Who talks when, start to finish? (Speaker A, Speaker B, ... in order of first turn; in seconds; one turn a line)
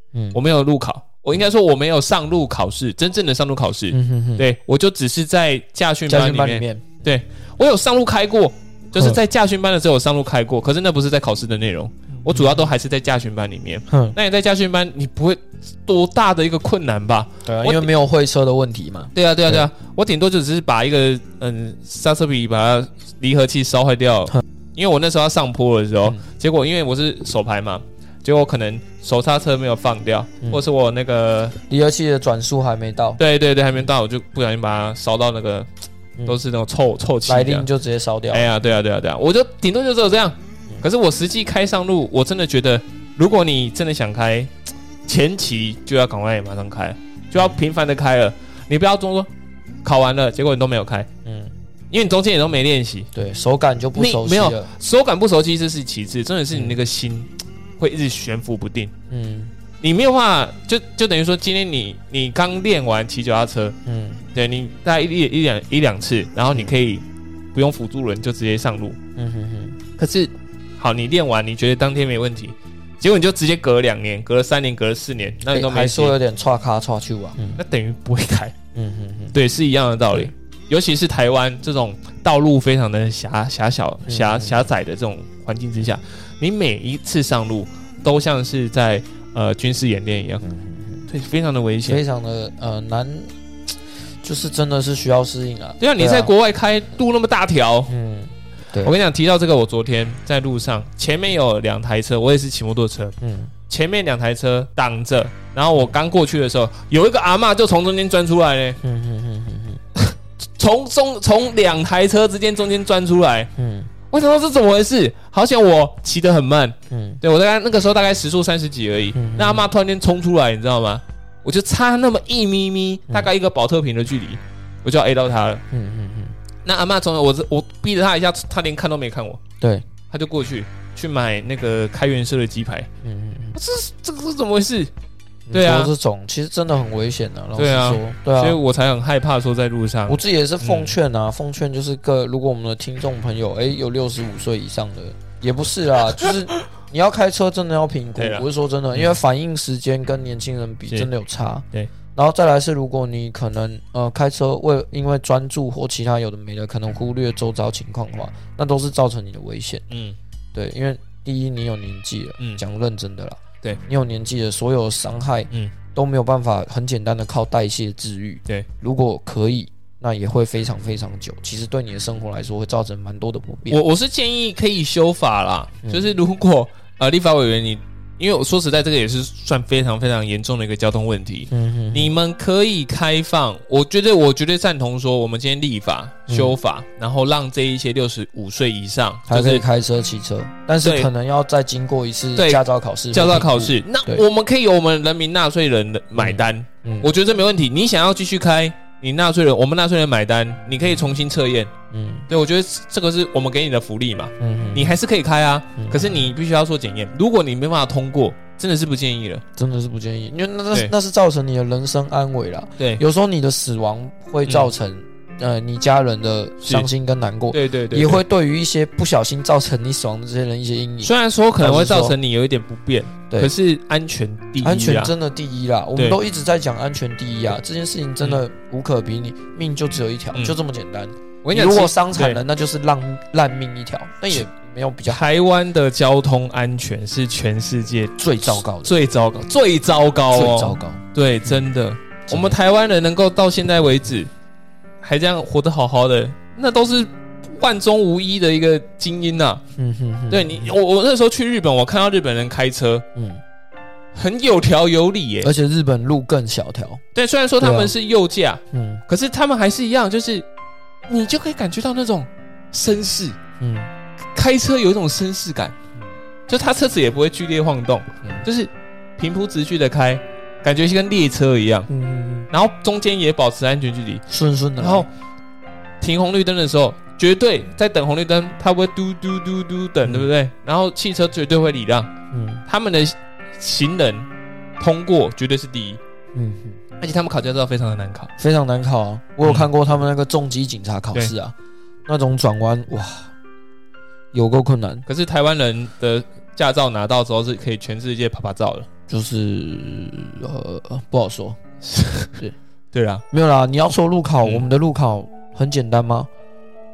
Speaker A: 0.1-0.4
Speaker B: 0.3-17.9
Speaker A: 3.9-4.5
Speaker A: 6.1-6.8
Speaker A: 12.3-12.6
Speaker A: 13.9-14.2
Speaker A: 17.5-19.7
Speaker B: 19.1-31.6
Speaker A: 31.7-33.2
Speaker B: 33.2-35.7
Speaker B: 36.3-37.7
Speaker A: 37.3-38.5
Speaker B: 38.3-44.5
Speaker B: 45.0-49.3
Speaker B: 49.8-51.1
Speaker A: 51.2-51.5
Speaker B: 51.9-53.1
Speaker A: 53.1-54.7
Speaker B: 54.0-58.9
Speaker A: 59.1-59.5
Speaker B: 59.8-63.8
Speaker A: 63.9-64.2
Speaker B: 64.3-69.0
Speaker A: 69.2-69.8
Speaker B: 70.0-76.2
Speaker A: 75.5-77.6
Speaker B: 77.6-78.5
Speaker A: 78.7-79.4
Speaker B: 79.3-90.4
Speaker A: 84.1-84.7
Speaker A: 90.4-91.1
Speaker B: 91.1-92.0
Speaker A: 91.8-93.3
Speaker A: 94.2-96.3
Speaker B: 95.8-97.9
Speaker A: 97.9-98.9
Speaker B: 98.8-103.2
Speaker A: 103.2-103.5
Speaker B: 103.7-108.8
Speaker A: 108.8-109.8
Speaker B: 110.0-113.5
Speaker A: 113.6-113.9
Speaker B: 114.1-125.6
Speaker A: 116.9-117.2
Speaker A: 119.1-119.7
Speaker A: 125.7-126.4
Speaker B: 126.7-129.4
Speaker B: 130.1-132.9
Speaker A: 133.0-133.6
Speaker B: 133.6-134.9
Speaker A: 135.5-138.6
Speaker B: 135.5-135.9
Speaker B: 137.6-141.0
Speaker A: 140.1-159.8
Speaker B: 148.2-149.2
Speaker B: 159.9-160.2
Speaker A: 160.5-173.8
Speaker B: 173.7-189.6
Speaker A: 175.8-176.1
Speaker A: 181.5-182.1
Speaker A: 186.3-186.6
Speaker A: 189.3-194.2
Speaker B: 190.8-191.1
Speaker B: 192.4-201.7
Speaker A: 196.2-197.1
Speaker A: 201.9-202.3
Speaker B: 202.3-209.4
Speaker A: 204.4-205.0
Speaker A: 205.8-206.2
Speaker A: 209.6-222.2
Speaker B: 214.4-214.7
Speaker B: 216.6-216.9
Speaker B: 217.5-218.2
Speaker B: 221.0-225.1
Speaker A: 224.6-235.2
Speaker B: 231.4-232.4
Speaker B: 235.1-244.3
Speaker A: 238.2-238.9
Speaker A: 240.3-241.6
Speaker A: 242.3-242.6
Speaker B: 245.0-249.6
Speaker A: 249.8-250.7
Speaker B: 250.3-253.1
Speaker A: 253.2-253.4
Speaker B: 254.1-255.5
Speaker A: 255.4-257.0
Speaker B: 257.1-260.5
Speaker A: 257.6-257.9
Speaker A: 258.7-259.0
Speaker B: 261.1-263.4
Speaker A: 263.6-263.9
Speaker B: 264.3-271.9
Speaker A: 271.9-272.5
Speaker B: 272.5-274.2
Speaker A: 274.3-275.1
Speaker B: 274.8-275.1
Speaker B: 276.0-282.1
Speaker A: 282.3-282.6
Speaker B: 282.7-286.0
Speaker A: 286.3-286.8
Speaker B: 287.0-288.3
Speaker A: 288.4-291.5
Speaker B: 289.4-289.7
Speaker A: 292.1-293.3
Speaker A: 294.3-295.1
Speaker B: 295.1-298.9
Speaker A: 299.1-301.6
Speaker B: 301.8-302.3
Speaker B: 302.9-303.2
Speaker A: 303.3-306.3